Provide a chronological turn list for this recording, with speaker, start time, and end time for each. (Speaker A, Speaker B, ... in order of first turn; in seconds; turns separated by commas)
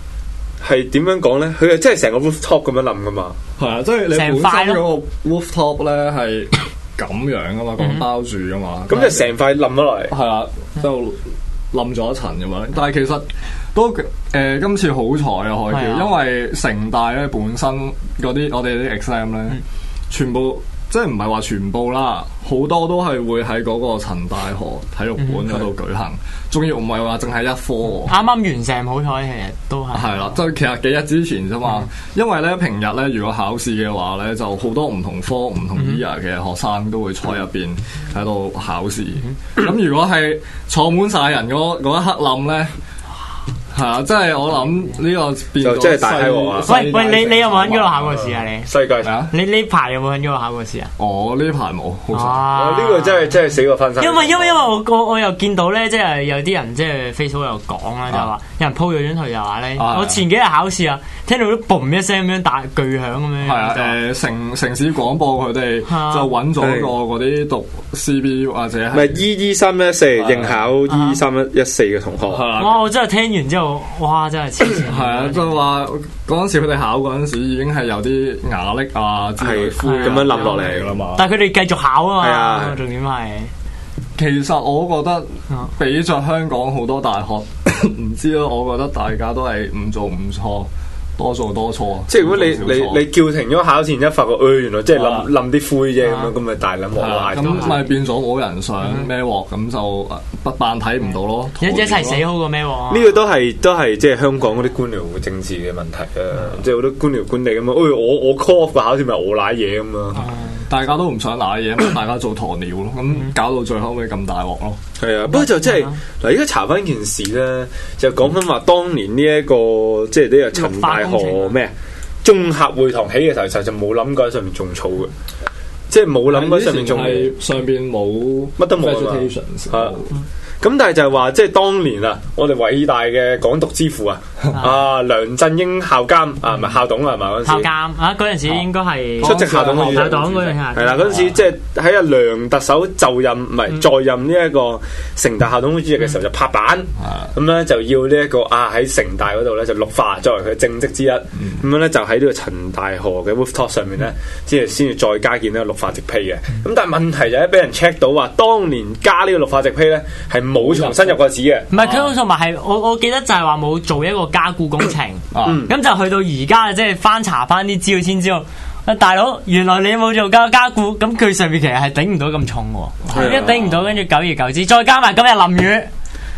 Speaker A: 0.6-3.4, Speaker B: 3.6-9.3, Speaker C: 4.1-4.8, Speaker C: 7.8-8.0, Speaker A: 8.9-10.1, Speaker B: 10.1-28.1, Speaker C: 15.7-16.1, Speaker C: 25.2-25.5, Speaker C: 28.1-30.3, Speaker B: 29.9-42.8, Speaker B: 43.7-48.4, Speaker A: 45.6-46.7, Speaker C: 46.7-48.7, Speaker A: 48.7-49.1, Speaker B: 49.0-49.3, Speaker C: 49.3-50.9, Speaker B: 51.0-52.5, Speaker C: 52.1-53.3, Speaker A: 52.5-54.6, Speaker C: 54.0-64.0, Speaker B: 59.8-60.2, Speaker B: 63.4-69.2, Speaker C: 65.9-66.3, Speaker A: 66.6-66.9, Speaker A: 68.9-72.5, Speaker B: 70.1-70.6, Speaker C: 70.9-71.2, Speaker B: 72.3-72.8, Speaker C: 72.6-75.6, Speaker B: 74.8-81.3, Speaker A: 79.4-80.9, Speaker C: 79.8-83.5, Speaker A: 82.2-82.8, Speaker B: 84.2-93.1, Speaker A: 92.1-97.8, Speaker B: 94.9-95.3, Speaker C: 96.0-96.3, Speaker B: 97.0-102.2, Speaker C: 97.5-97.7, Speaker C: 101.6-103.2, Speaker A: 102.9-110.2, Speaker C: 110.2-110.6, Speaker B: 110.7-114.8, Speaker A: 115.0-121.7, Speaker C: 115.3-116.0, Speaker C: 120.5-121.5, Speaker A: 122.2-125.1, Speaker A: 125.9-127.3, Speaker B: 126.3-130.1, Speaker A: 128.6-129.9, Speaker A: 130.6-137.7, Speaker C: 137.4-141.3, Speaker B: 139.2-140.7, Speaker A: 139.2-161.7, Speaker B: 147.0-147.3, Speaker B: 160.6-161.2, Speaker C: 161.7-175.9, Speaker B: 161.7-162.1, Speaker B: 165.3-165.6, Speaker A: 165.4-165.7, Speaker B: 173.0-173.7, Speaker A: 173.1-173.6